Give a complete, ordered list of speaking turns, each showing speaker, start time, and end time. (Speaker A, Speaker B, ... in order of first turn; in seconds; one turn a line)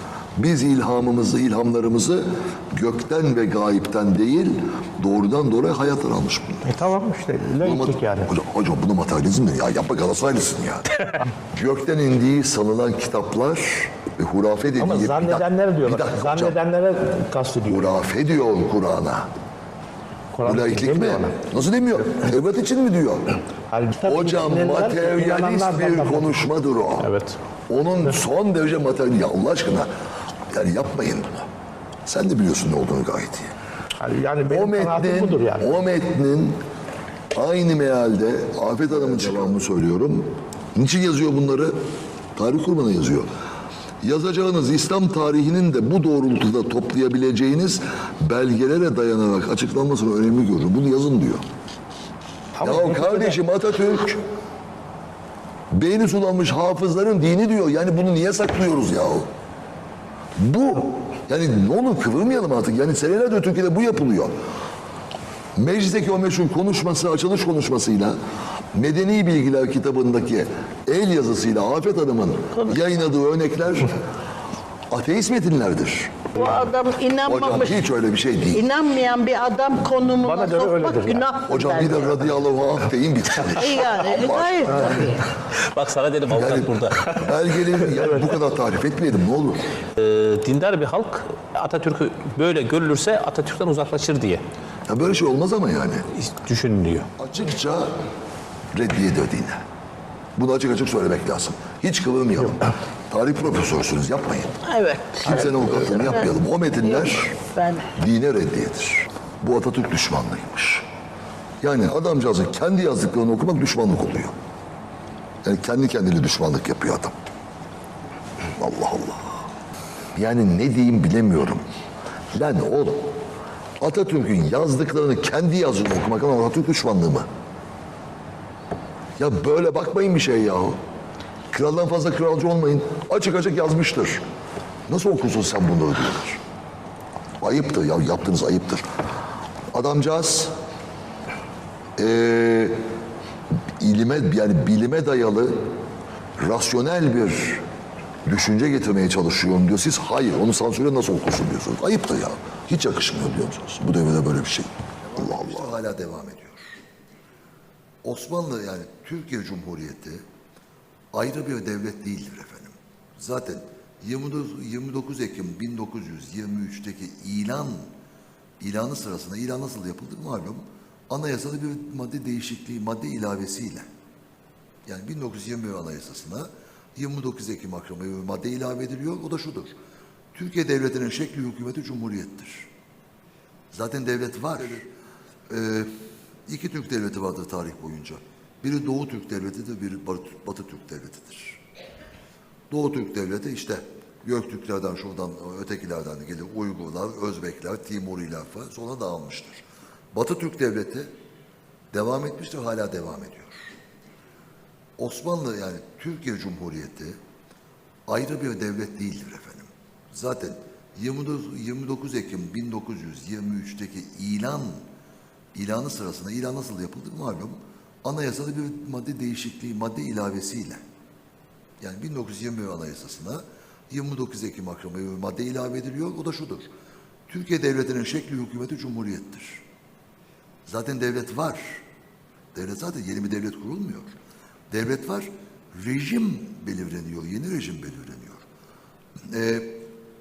Speaker A: 0.4-6.8
Speaker B: 6.7-8.3
Speaker A: 7.6-16.6
Speaker B: 14.8-17.9
Speaker A: 17.7-19.3
Speaker B: 20.3-21.4
Speaker A: 20.4-23.4
Speaker B: 23.7-26.5
Speaker A: 24.0-27.1
Speaker C: 27.0-27.4
Speaker A: 27.7-29.9
Speaker A: 30.5-31.5
Speaker A: 32.1-33.5
Speaker B: 34.0-35.7
Speaker A: 34.5-36.6
Speaker A: 37.4-41.7
Speaker A: 42.4-43.3
Speaker A: 44.0-51.4
Speaker B: 52.5-53.4
Speaker A: 52.6-54.2
Speaker A: 55.7-59.3
Speaker A: 60.4-64.3
Speaker A: 65.6-68.2
Speaker A: 68.7-74.0
Speaker A: 74.9-76.2
Speaker D: 76.3-77.9
Speaker A: 77.2-78.7
Speaker D: 78.5-82.3
Speaker B: 80.2-81.3
Speaker A: 81.5-85.1
Speaker D: 83.6-85.3
Speaker B: 84.7-85.1
Speaker C: 85.4-88.0
Speaker A: 86.3-89.7
Speaker C: 90.0-94.4
Speaker A: 94.9-96.1
Speaker C: 96.2-97.1
Speaker A: 97.2-97.9
Speaker A: 98.7-99.6
Speaker A: 100.4-104.5
Speaker D: 104.7-106.3
Speaker A: 105.2-107.4
Speaker D: 106.8-107.9
Speaker A: 108.0-110.8
Speaker A: 111.6-114.3
Speaker A: 115.4-117.2
Speaker A: 118.6-119.4
Speaker A: 120.2-121.6
Speaker A: 122.3-123.1
Speaker A: 123.8-127.3
Speaker A: 129.2-130.8
Speaker A: 131.5-134.2
Speaker A: 134.9-136.4
Speaker A: 137.4-138.8
Speaker A: 139.7-140.5
Speaker A: 142.0-142.8
Speaker A: 143.8-145.6
Speaker A: 146.4-147.6
Speaker A: 148.3-156.8
Speaker A: 158.0-160.2
Speaker A: 161.1-167.9
Speaker A: 168.6-173.9
Speaker A: 174.9-179.8
Speaker A: 180.3-182.7
Speaker A: 183.7-184.9
Speaker A: 185.5-185.9
Speaker A: 186.5-191.6
Speaker A: 192.7-201.1
Speaker A: 201.9-203.7
Speaker A: 205.0-207.2
Speaker A: 208.1-214.8
Speaker A: 215.5-220.8
Speaker A: 221.8-226.7
Speaker A: 227.3-229.6
Speaker A: 230.7-231.8
Speaker A: 232.5-234.1
Speaker A: 234.7-238.5
Speaker A: 239.3-239.8